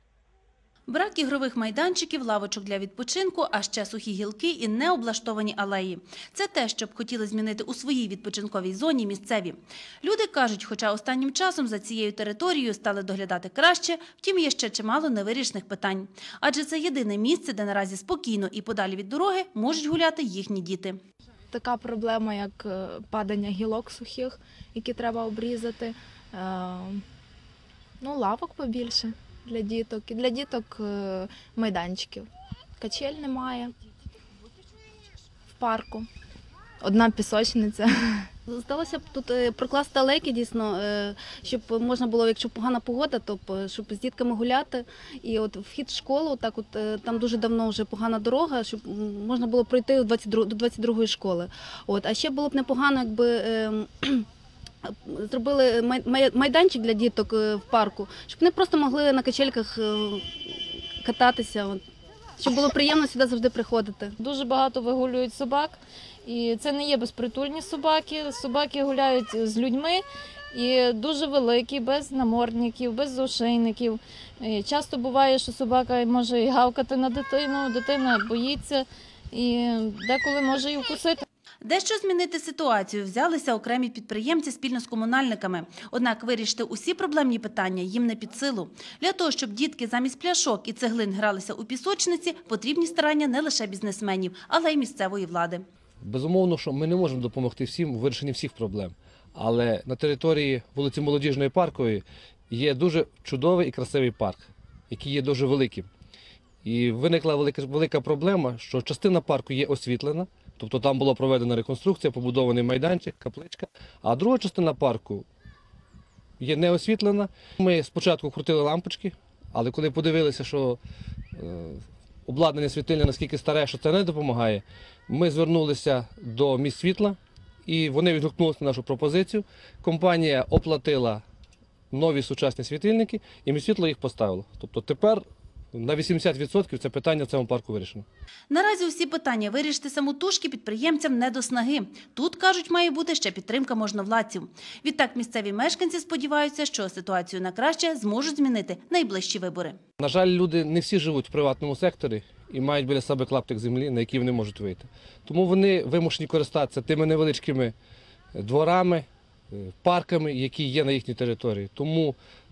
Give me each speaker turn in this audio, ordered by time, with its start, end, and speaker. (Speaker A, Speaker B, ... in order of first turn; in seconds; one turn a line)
Speaker A: 0.9-21.0
Speaker B: 21.5-27.0
Speaker B: 28.0-32.3
Speaker B: 32.8-33.7
Speaker B: 35.5-36.1
Speaker B: 36.8-38.3
Speaker C: 38.5-54.2
Speaker C: 54.8-61.8
Speaker C: 62.4-64.1
Speaker D: 64.2-81.2
Speaker A: 81.6-95.6
Speaker E: 96.0-105.9
Speaker E: 106.6-115.2
Speaker E: 116.4-120.8
Speaker E: 121.3-131.2
Speaker E: 131.9-135.2
Speaker E: 135.7-138.1
Speaker A: 138.5-149.8
Speaker E: 150.0-157.7
Speaker E: 158.3-162.2